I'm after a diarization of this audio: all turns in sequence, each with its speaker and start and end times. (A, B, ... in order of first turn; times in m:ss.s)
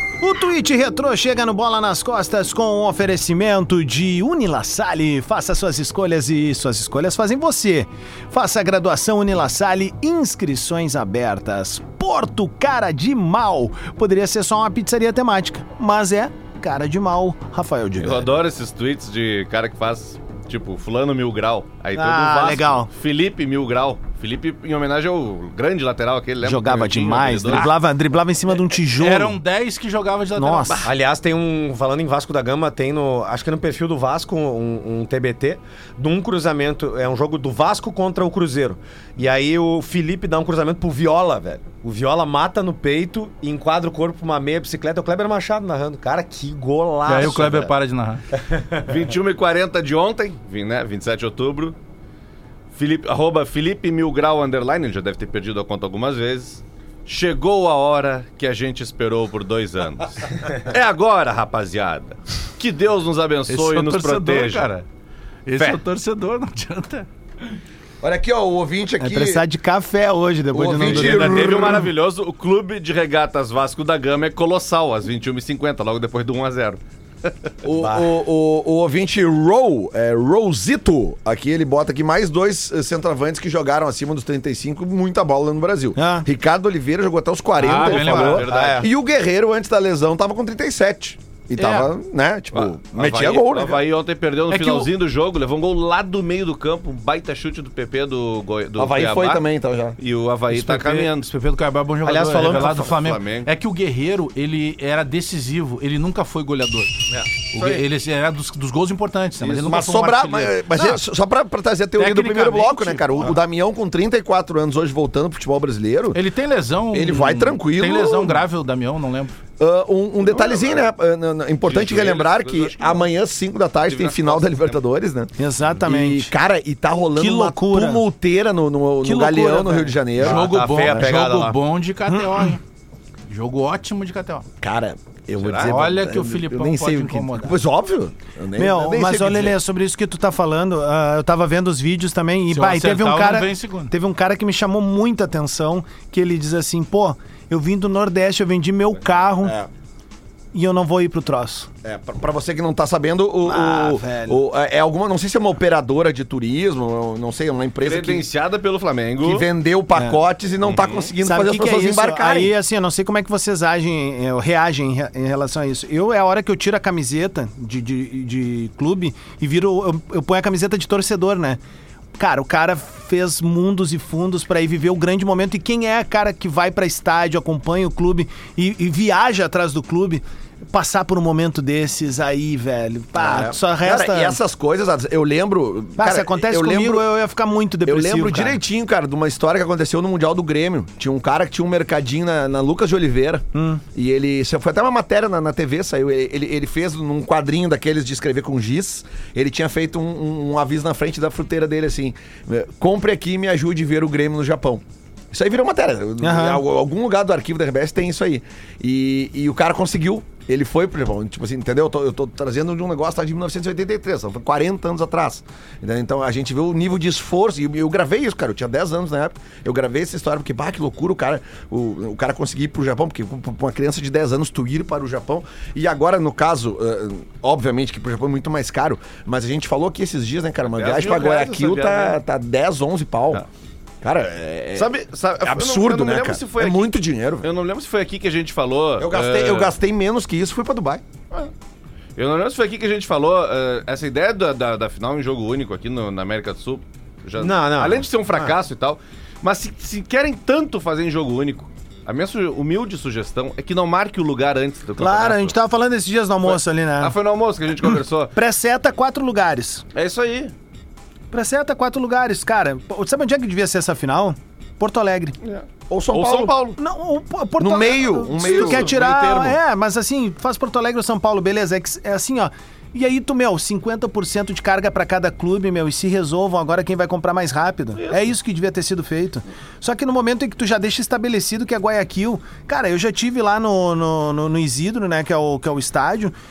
0:00.2-0:18.3 A
0:18.0-0:27.7 B
0:21.9-0:22.9 A
0:26.4-0:29.4 A
0:29.0-0:30.9 C
0:30.4-0:30.9 A
0:30.8-0:47.7 D
0:47.0-0:48.2 C
0:48.4-0:48.9 D
0:48.8-0:51.8 B
0:52.8-1:04.8 B
1:03.5-1:04.8 C
1:05.5-1:07.1 C
1:08.0-1:09.4 E
1:09.0-1:11.7 A
1:10.5-1:11.9 E
1:10.8-1:17.5 B
1:17.6-1:33.8 E
1:17.8-1:18.1 D
1:26.0-1:26.3 A
1:27.6-1:28.5 C
1:27.7-1:28.9 B
1:27.7-1:28.9 D
1:31.6-1:31.9 C
1:32.5-1:39.4 B
1:34.5-1:34.8 C
1:38.8-1:40.0 E
1:40.0-1:41.3 B
1:40.5-1:51.0 C
1:42.0-1:42.9 D
1:42.5-1:43.5 B
1:47.6-1:47.8 E
1:49.4-1:56.2 E
1:52.0-1:53.4 C
1:56.1-1:59.3 C
1:56.9-1:58.4 E
1:59.6-2:11.1 E
2:00.2-2:00.9 B
2:01.6-2:03.1 B
2:03.9-2:04.8 B
2:05.4-2:06.3 A
2:07.2-2:08.0 A
2:09.0-2:09.9 A
2:10.2-2:11.6 D
2:10.2-2:12.6 C
2:12.1-2:12.6 A
2:13.3-2:14.5 C
2:14.6-2:19.6 E
2:15.4-2:15.7 B
2:15.7-2:17.6 C
2:18.6-2:29.6 A
2:22.5-2:23.9 C
2:29.4-2:29.7 E
2:30.5-2:31.7 A
2:31.8-2:38.3 E
2:33.4-2:34.4 A
2:37.8-2:39.5 B
2:39.2-2:42.5 E
2:40.6-2:41.1 B
2:41.2-2:51.6 A
2:52.2-3:04.4 A
3:03.2-3:07.1 E
3:06.0-3:08.6 A
3:07.8-3:53.4 E
3:13.5-3:13.8 A
3:26.2-3:26.6 A
3:50.7-3:52.2 B
3:54.0-3:57.5 E
3:54.8-3:59.7 B
3:59.0-4:01.0 E
4:02.2-4:15.6 B
4:07.4-4:08.5 D
4:15.0-4:17.2 A
4:16.5-4:18.3 B
4:17.8-4:19.8 A
4:19.9-4:20.5 B
4:21.3-4:25.4 A
4:25.4-4:26.8 B
4:25.9-4:26.6 E
4:26.8-4:46.3 A
4:27.6-4:29.0 E
4:28.6-4:29.0 B
4:29.1-4:29.5 C